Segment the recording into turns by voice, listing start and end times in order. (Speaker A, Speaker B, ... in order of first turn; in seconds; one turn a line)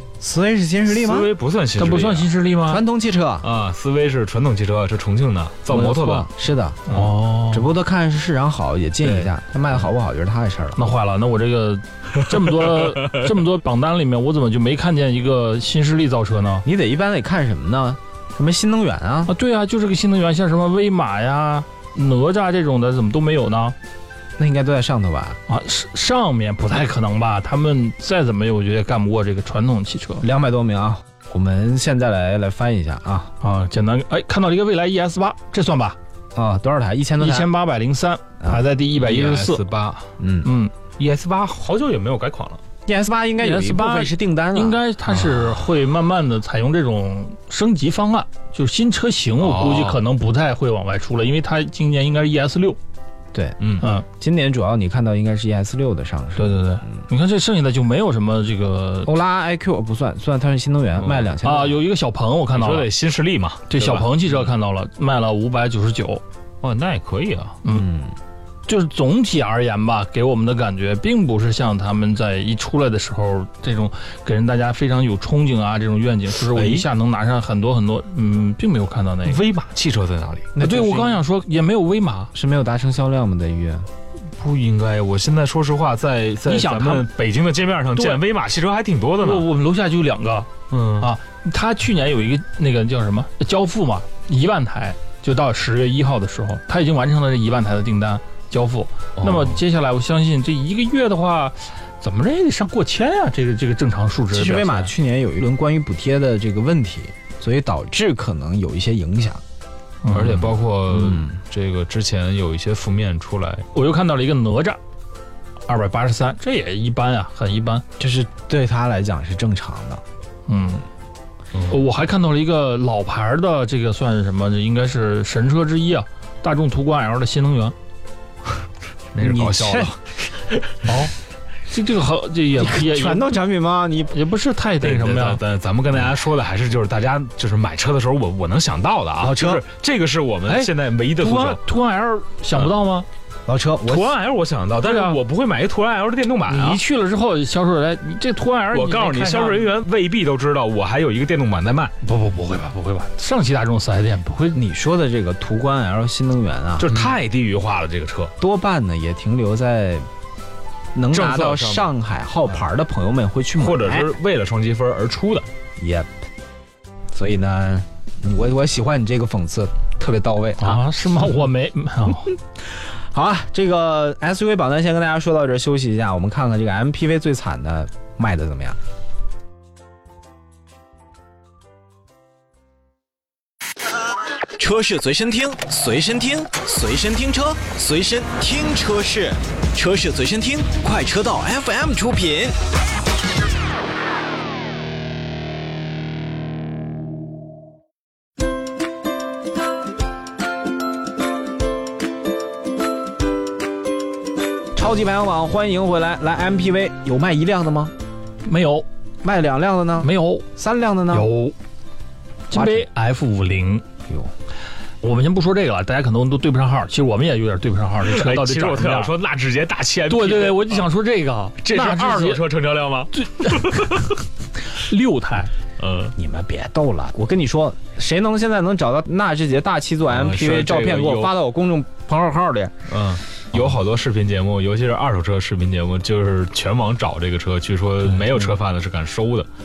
Speaker A: 0.2-1.3
Speaker B: 0.9-2.3
Speaker C: 1.8-2.8
Speaker A: 2.6-3.5
Speaker B: 3.4-6.3
Speaker A: 5.7-10.9
Speaker C: 6.9-7.7
Speaker C: 9.0-9.3
Speaker C: 10.8-16.6
Speaker A: 16.6-19.3
Speaker C: 19.3-23.8
Speaker A: 24.4-25.4
Speaker C: 25.5-30.2
Speaker A: 30.2-33.3
Speaker C: 33.4-36.0
Speaker A: 36.3-37.5
Speaker C: 37.2-39.7
Speaker A: 38.4-38.6
Speaker B: 39.0-40.1
Speaker A: 40.2-40.5
Speaker C: 40.4-40.7
Speaker B: 41.0-42.6
Speaker A: 42.9-44.8
Speaker C: 43.4-52.8
Speaker B: 45.1-45.6
Speaker B: 49.4-50.0
Speaker A: 53.3-57.0
Speaker B: 53.6-53.9
Speaker C: 56.4-59.1
Speaker A: 59.0-61.8
Speaker B: 61.0-61.3
Speaker C: 61.4-62.9
Speaker B: 62.5-64.3
Speaker C: 63.7-66.2
Speaker B: 66.6-67.6
Speaker A: 67.7-68.1
Speaker C: 68.7-79.4
Speaker B: 76.4-76.9
Speaker B: 79.2-80.5
Speaker A: 80.5-81.2
Speaker C: 80.6-82.3
Speaker A: 82.3-83.9
Speaker B: 84.3-89.5
Speaker C: 86.5-87.1
Speaker C: 89.2-104.9
Speaker B: 90.7-91.1
Speaker B: 99.2-99.6
Speaker A: 104.3-109.4
Speaker C: 110.0-110.5
Speaker B: 110.1-113.7
Speaker A: 110.9-111.3
Speaker C: 113.7-114.8
Speaker C: 115.7-117.8
Speaker A: 118.0-120.0
Speaker C: 120.5-120.8
Speaker B: 121.5-121.8
Speaker C: 121.7-127.8
Speaker B: 129.1-129.9
Speaker A: 129.2-130.0
Speaker C: 130.8-131.1
Speaker C: 131.7-133.3
Speaker A: 132.5-134.2
Speaker C: 134.1-135.4
Speaker B: 134.8-141.6
Speaker A: 139.2-139.6
Speaker C: 140.5-143.1
Speaker A: 143.5-144.1
Speaker B: 143.8-146.8
Speaker C: 144.8-145.2
Speaker C: 146.5-149.7
Speaker B: 148.7-151.9
Speaker C: 152.0-154.6
Speaker A: 154.5-156.9
Speaker B: 156.8-158.3
Speaker A: 158.4-160.1
Speaker A: 160.9-164.1
Speaker B: 161.1-161.9
Speaker B: 163.6-165.5
Speaker A: 165.8-166.1
Speaker A: 167.1-170.8
Speaker C: 170.6-172.4
Speaker A: 173.1-178.8
Speaker D: 184.6-192.6
Speaker A: 204.7-207.9
Speaker C: 208.4-208.8
Speaker A: 209.2-211.3
Speaker C: 210.0-210.5
Speaker C: 211.1-211.6
Speaker C: 212.5-213.8
Speaker A: 212.5-212.8
Speaker C: 215.0-219.1
Speaker B: 218.0-220.9
Speaker C: 220.1-222.4
Speaker B: 221.6-224.1
Speaker C: 223.1-224.1
Speaker C: 224.7-225.5
Speaker B: 225.8-226.2
Speaker A: 226.2-232.7
Speaker B: 230.1-231.3
Speaker B: 232.9-239.5